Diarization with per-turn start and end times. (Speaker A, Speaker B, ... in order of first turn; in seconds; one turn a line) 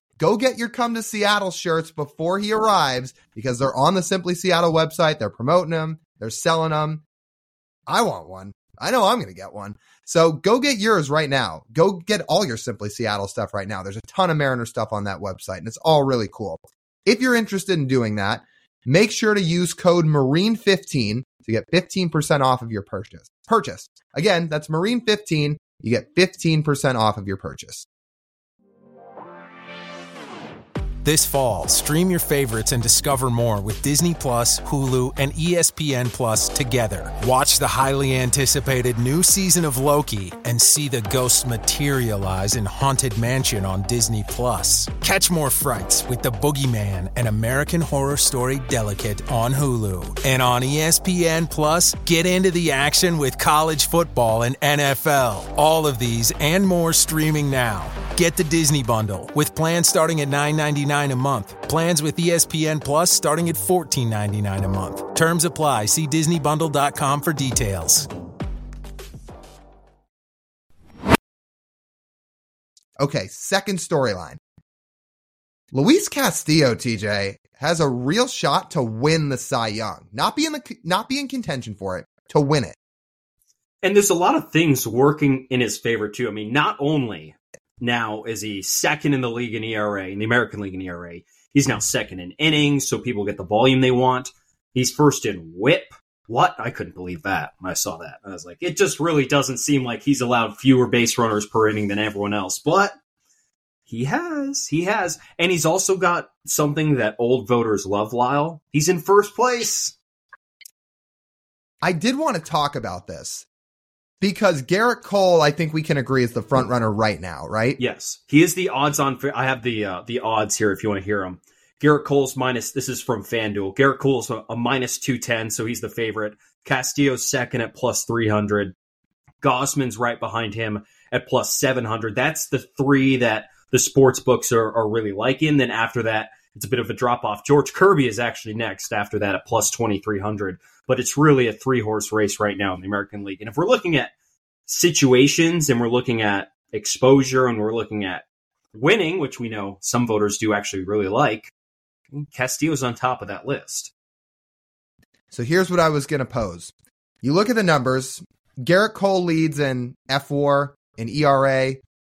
Speaker A: 0.2-7.0
Speaker A: 7.9-27.9
Speaker B: 31.0-68.1
Speaker A: 73.0-74.4
Speaker A: 75.7-82.8
Speaker C: 83.8-103.0
Speaker C: 103.9-110.0
Speaker A: 111.8-113.5
Speaker A: 114.2-117.8
Speaker C: 117.8-128.7
Speaker C: 129.4-144.1
Speaker C: 144.7-151.5
Speaker C: 152.1-153.9
Speaker A: 155.3-161.8